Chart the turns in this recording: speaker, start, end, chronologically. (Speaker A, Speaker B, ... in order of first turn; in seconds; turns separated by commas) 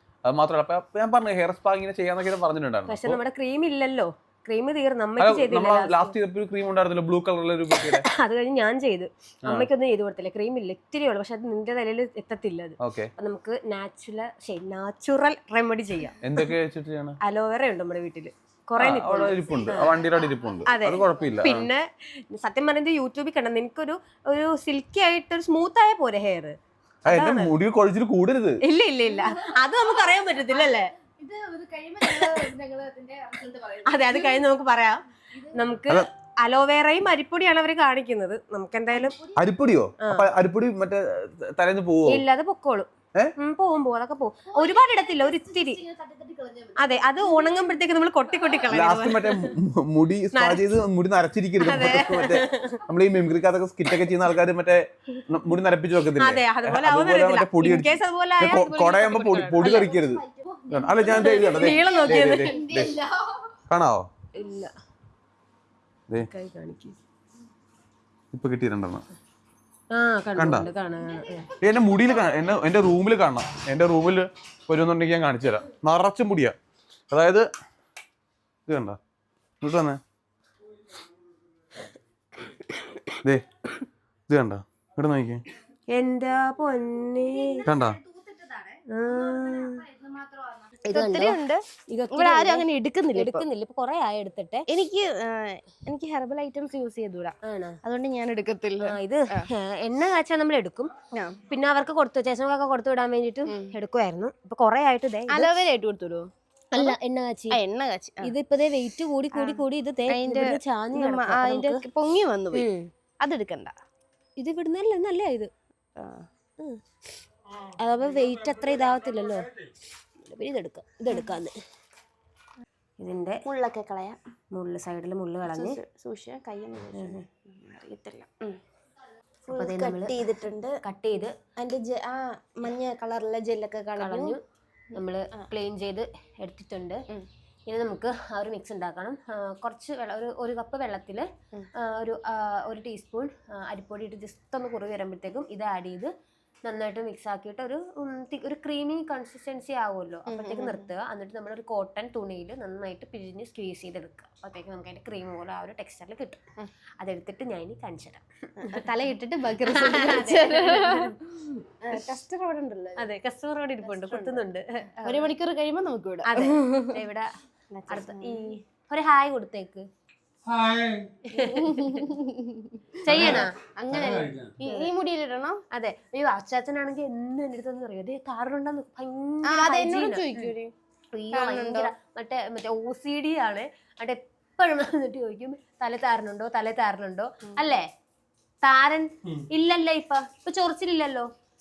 Speaker A: 0.3-3.2, Speaker B: 2.9-6.1, Speaker A: 5.2-8.1, Speaker B: 7.8-16.5, Speaker A: 12.8-13.1, Speaker A: 16.2-17.2, Speaker B: 17.2-20.1, Speaker A: 18.8-21.7, Speaker B: 20.7-27.5, Speaker A: 27.1-28.6, Speaker B: 28.7-30.9, Speaker C: 31.2-34.5, Speaker B: 32.1-32.4, Speaker B: 33.9-35.0, Speaker B: 35.5-39.2, Speaker C: 38.9-39.5, Speaker A: 39.4-42.2, Speaker B: 40.0-40.3, Speaker B: 42.1-45.8, Speaker C: 44.5-47.8, Speaker B: 46.8-49.5, Speaker A: 48.7-63.0, Speaker B: 50.3-50.7, Speaker B: 51.6-52.8, Speaker B: 56.2-59.9, Speaker C: 59.6-63.5, Speaker B: 61.1-62.6, Speaker A: 63.7-64.1, Speaker B: 64.3-64.7, Speaker B: 66.2-67.0, Speaker A: 68.3-69.0, Speaker B: 69.9-71.5, Speaker A: 70.4-70.7, Speaker C: 71.0-72.6, Speaker A: 71.6-76.6, Speaker A: 77.1-77.5, Speaker A: 78.7-79.0, Speaker A: 79.6-80.0, Speaker A: 84.3-85.4, Speaker B: 85.9-87.7, Speaker A: 87.7-88.0, Speaker C: 87.8-88.6, Speaker B: 88.9-89.9, Speaker C: 90.0-93.5, Speaker B: 90.9-91.4, Speaker B: 91.9-94.7, Speaker C: 94.7-99.5, Speaker B: 97.5-97.8, Speaker B: 98.9-100.9, Speaker B: 101.5-105.5, Speaker C: 105.3-107.0, Speaker B: 106.7-107.6, Speaker C: 107.5-108.3, Speaker B: 108.2-111.8, Speaker C: 109.3-112.7, Speaker B: 112.5-112.9, Speaker C: 113.2-113.7, Speaker B: 114.4-115.5, Speaker C: 116.0-116.3, Speaker B: 117.8-119.5, Speaker B: 120.2-121.5, Speaker B: 123.0-123.4, Speaker C: 123.5-124.2, Speaker B: 124.5-125.8, Speaker C: 125.5-128.6, Speaker B: 127.0-127.2, Speaker C: 129.5-130.8, Speaker B: 129.5-130.2, Speaker B: 130.8-131.3, Speaker C: 131.6-134.4, Speaker B: 134.0-134.4, Speaker C: 134.9-135.5, Speaker B: 135.0-137.0, Speaker B: 137.7-141.3, Speaker B: 141.8-146.1, Speaker B: 146.7-156.4, Speaker C: 150.3-150.9, Speaker B: 157.0-158.2, Speaker C: 158.6-161.1, Speaker B: 159.7-161.6, Speaker C: 161.8-163.1, Speaker B: 163.0-165.3, Speaker C: 163.8-164.4, Speaker C: 165.0-167.0, Speaker B: 166.3-167.3, Speaker C: 167.7-168.5, Speaker B: 167.9-169.9, Speaker D: 170.5-171.2, Speaker C: 171.3-175.6, Speaker B: 171.4-172.0, Speaker B: 173.0-173.5, Speaker D: 173.1-174.5, Speaker B: 175.7-180.5, Speaker C: 179.5-180.7, Speaker B: 181.1-187.8, Speaker C: 181.3-181.9, Speaker B: 188.6-191.3